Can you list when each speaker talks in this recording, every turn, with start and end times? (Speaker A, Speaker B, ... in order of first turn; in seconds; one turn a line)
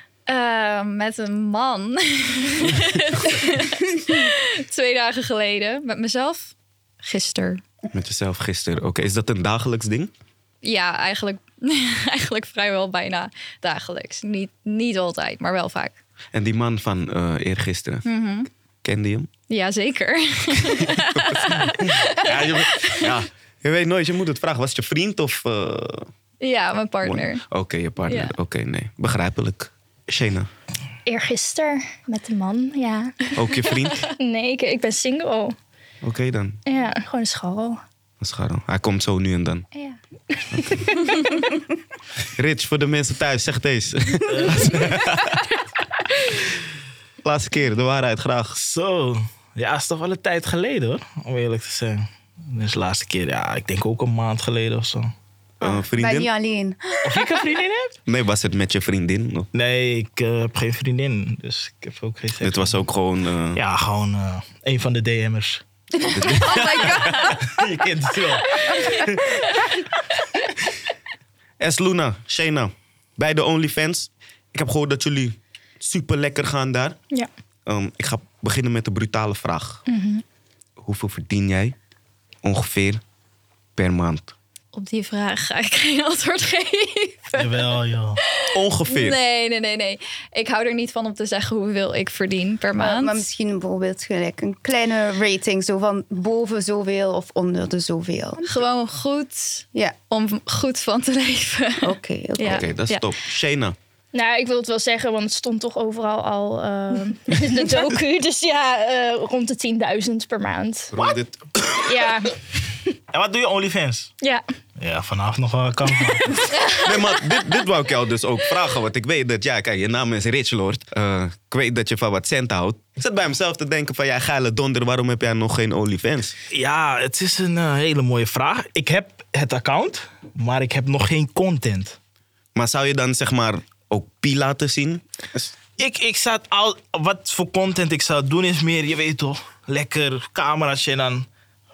Speaker A: 0.3-7.6
Speaker B: 7.9-10.1
Speaker A: 10.6-15.9
Speaker B: 16.3-18.1
Speaker A: 18.0-18.5
Speaker B: 18.8-19.3
Speaker A: 19.5-23.1
Speaker B: 20.6-26.1
Speaker A: 26.4-27.4
Speaker B: 27.0-30.5
Speaker A: 28.1-28.3
Speaker C: 31.1-35.6
Speaker B: 33.3-34.0
Speaker B: 36.0-36.6
Speaker C: 36.7-37.8
Speaker B: 38.2-39.7
Speaker C: 39.8-41.4
Speaker B: 42.4-45.4
Speaker D: 44.2-45.1
Speaker B: 47.2-48.6
Speaker D: 48.6-55.1
Speaker B: 55.6-56.3
Speaker E: 55.6-57.4
Speaker D: 57.0-57.9
Speaker B: 58.1-59.5
Speaker D: 59.5-62.8
Speaker B: 62.4-63.6
Speaker D: 63.5-65.6
Speaker B: 66.0-67.6
Speaker A: 66.2-67.4
Speaker E: 66.4-66.9
Speaker D: 67.3-69.2
Speaker B: 71.6-77.0
Speaker B: 77.7-79.8
Speaker C: 79.9-80.2
Speaker B: 80.8-81.8
Speaker B: 82.4-83.0
Speaker B: 83.8-84.3
Speaker A: 84.7-87.7
Speaker D: 87.3-88.2
Speaker B: 88.5-89.2
Speaker A: 88.8-93.2
Speaker E: 92.8-98.5
Speaker A: 98.4-103.1
Speaker E: 101.8-102.7
Speaker B: 102.4-103.8
Speaker C: 104.1-111.0
Speaker B: 110.9-111.9
Speaker C: 111.8-112.4
Speaker D: 113.1-114.1
Speaker C: 114.2-114.5
Speaker D: 114.8-116.5
Speaker C: 116.2-116.5
Speaker A: 116.5-116.9
Speaker B: 116.8-126.3
Speaker D: 126.5-132.0
Speaker B: 132.5-135.5
Speaker D: 135.8-141.3